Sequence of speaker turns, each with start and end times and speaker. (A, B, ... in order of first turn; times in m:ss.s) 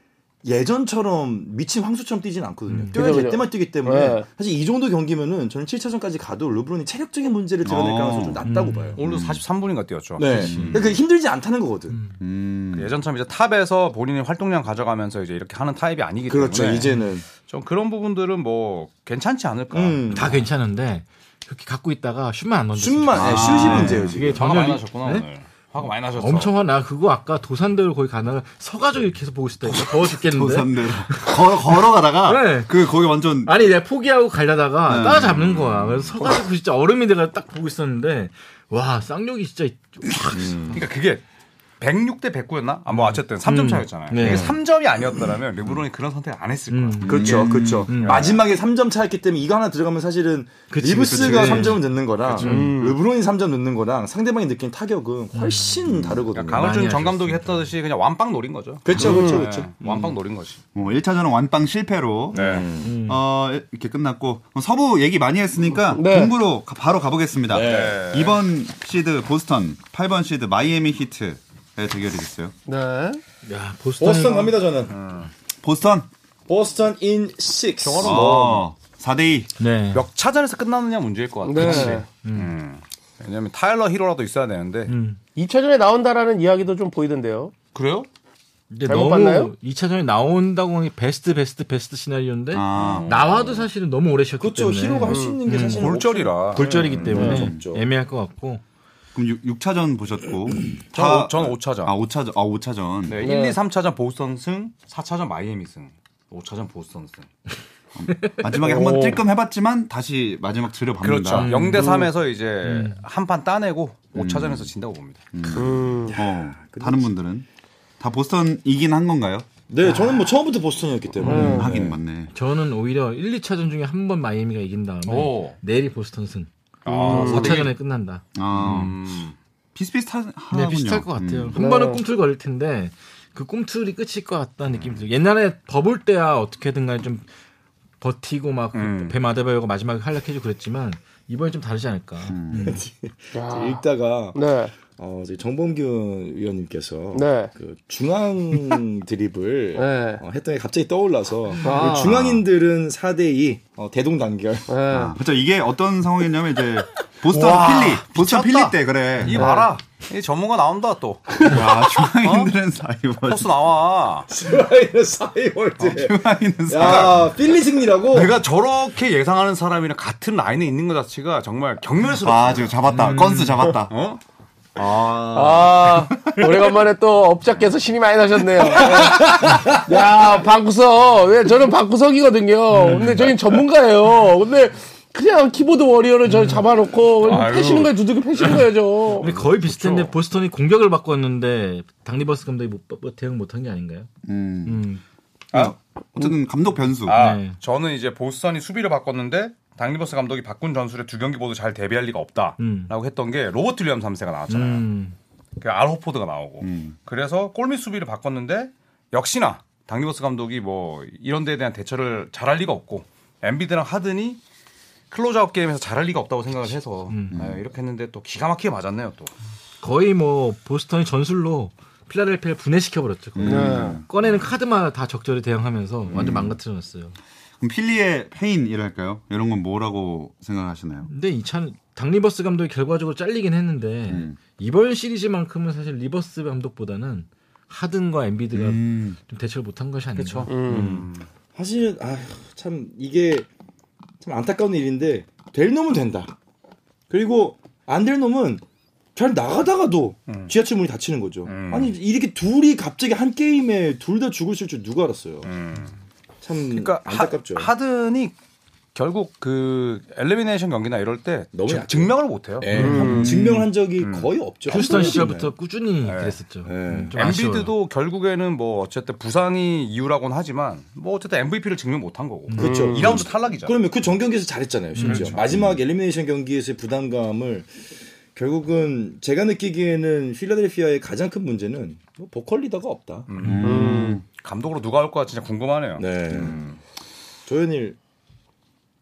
0:00.4-0:09.0 A
0:02.7-0:03.0 B
0:02.9-0:04.3 C
0:07.6-0:08.4 D
0:08.4-0:09.0 B
0:09.0-0:11.0 E
0:09.0-0:09.4 D
0:10.2-0:12.0 A
0:10.4-0:10.8 B
0:10.5-0:10.8 D
0:12.2-0:12.9 D
0:12.7-0:20.3 E
0:16.3-0:17.2 A
0:19.7-0:20.4 A
0:20.1-0:25.3 B
0:22.8-0:24.4 A
0:23.1-0:24.2 D
0:24.3-0:26.5 E
0:26.1-0:32.7 B
0:29.6-0:33.5 D
0:33.4-0:40.8 B
0:34.9-0:36.4 D
0:40.4-0:40.8 A
0:40.7-0:41.2 E
0:41.8-0:48.4 E
0:42.9-0:44.5 B
0:44.2-0:44.6 A
0:46.7-0:48.3 B
0:47.1-0:47.9 D
0:47.1-0:56.7 A
0:50.7-0:52.8 B
0:51.1-0:51.8 D
0:51.2-0:51.7 E
0:52.4-0:53.0 C
0:55.3-0:55.9 B
0:56.3-1:00.6 E
0:56.5-0:57.7 B
0:58.8-0:59.7 A
0:58.9-0:59.5 C
1:00.8-1:12.5 D
1:02.3-1:02.7 E
1:02.3-1:03.0 A
1:02.8-1:03.2 B
1:05.9-1:06.3 C
1:07.5-1:08.0 A
1:07.5-1:08.4 E
1:12.7-1:13.2 C
1:13.4-1:14.6 B
1:14.0-1:15.0 A
1:14.9-1:15.3 E
1:15.6-1:16.1 D
1:16.5-1:18.4 A
1:17.8-1:18.7 E
1:18.0-1:19.5 D
1:19.6-1:20.0 B
1:19.9-1:24.9 E
1:21.4-1:22.1 C
1:21.6-1:22.5 B
1:24.9-1:25.2 B
1:25.4-1:27.5 C
1:27.7-1:28.1 E
1:28.7-1:36.0 B
1:28.8-1:29.5 C
1:32.5-1:33.2 D
1:32.7-1:33.6 E
1:34.4-1:37.8 A
1:35.1-1:35.4 C
1:35.7-1:37.1 E
1:36.5-1:38.6 B
1:37.1-1:37.5 C
1:37.2-1:37.6 D
1:39.2-1:43.2 D
1:40.9-1:42.0 E
1:43.1-1:47.3 E
1:43.2-1:43.6 C
1:48.0-1:51.6 D
1:48.1-1:48.4 B
1:48.6-1:49.2 C
1:51.0-1:55.2 E
1:51.3-1:52.1 B
1:52.6-1:53.0 B
1:54.2-1:54.7 D
1:55.3-1:57.5 D
1:55.5-1:56.2 C
1:56.1-1:57.1 A
1:58.0-1:59.5 D
1:59.7-2:02.0 A
2:01.2-2:01.8 C
2:01.2-2:02.3 D
2:01.3-2:01.6 B
2:02.3-2:08.2 B
2:05.1-2:05.6 E
2:06.8-2:07.7 E
2:06.9-2:07.7 C
2:08.4-2:09.0 D
2:08.5-2:09.4 E
2:09.8-2:11.6 D
2:10.5-2:17.3 B
2:11.5-2:12.0 C
2:18.0-2:22.8 B
2:18.7-2:19.2 E
2:22.3-2:22.8 D
2:22.6-2:34.8 A
2:23.3-2:23.8 C
2:24.4-2:24.8 C
2:27.1-2:27.5 C
2:29.8-2:30.2 C
2:31.6-2:32.3 C
2:32.0-2:32.4 D
2:34.7-2:35.2 C
2:34.9-2:39.5 D
2:37.3-2:42.5 E
2:39.3-2:39.7 C
2:41.4-2:43.5 D
2:43.2-2:44.3 E
2:44.3-2:48.3 A
2:45.8-2:47.3 D
2:46.8-2:47.2 E
2:48.1-2:52.8 E
2:52.2-2:53.9 D
2:52.9-2:53.7 B
2:53.9-2:54.2 E
2:54.8-2:56.5 D
2:55.3-3:09.3 C
2:58.8-2:59.8 A
3:02.7-3:03.3 B
3:06.3-3:06.6 B
3:07.2-3:08.0 E
3:09.1-3:10.1 E
3:09.1-3:14.1 B
3:14.2-3:14.8 D
3:14.6-3:15.0 B
3:15.5-3:17.2 D
3:17.0-3:24.9 E
3:17.1-3:17.6 B
3:22.6-3:22.9 B
3:24.5-3:25.2 B
3:25.6-3:34.4 E
3:26.6-3:27.0 D
3:35.1-3:39.3 E
3:37.1-3:37.4 B
3:37.3-3:37.6 D
3:39.8-3:47.2 B
3:43.4-3:44.4 D
3:43.4-3:44.0 C
3:46.1-3:46.6 D
3:47.6-3:51.1 D
3:51.1-4:00.9 B
3:54.1-3:54.4 D
3:58.5-3:59.2 D
4:00.2-4:01.3 E
4:00.5-4:01.0 C
4:00.7-4:03.5 A
4:04.2-4:06.3 A
4:07.1-4:08.6 A
4:09.2-4:15.5 A
4:10.3-4:10.5 E
4:11.5-4:12.0 E
4:15.4-4:16.0 E
4:16.4-4:17.7 A
4:16.7-4:18.4 E
4:19.0-4:22.7 E
4:21.5-4:25.5 A
4:22.8-4:23.4 C
4:22.8-4:23.3 B
4:22.9-4:23.6 D
4:24.0-4:25.2 E
4:24.7-4:27.7 B
4:26.0-4:26.4 E
4:26.7-4:27.2 A
4:27.2-4:33.8 E
4:32.5-4:32.7 B
4:32.6-4:37.7 A
4:32.6-4:33.2 C
4:35.0-4:35.3 B
4:35.0-4:35.4 E
4:38.3-4:43.3 A
4:43.3-4:46.8 E
4:43.4-4:43.7 B
4:43.4-4:44.2 D
4:43.6-4:44.2 C
4:46.0-4:46.6 A
4:47.5-4:48.0 A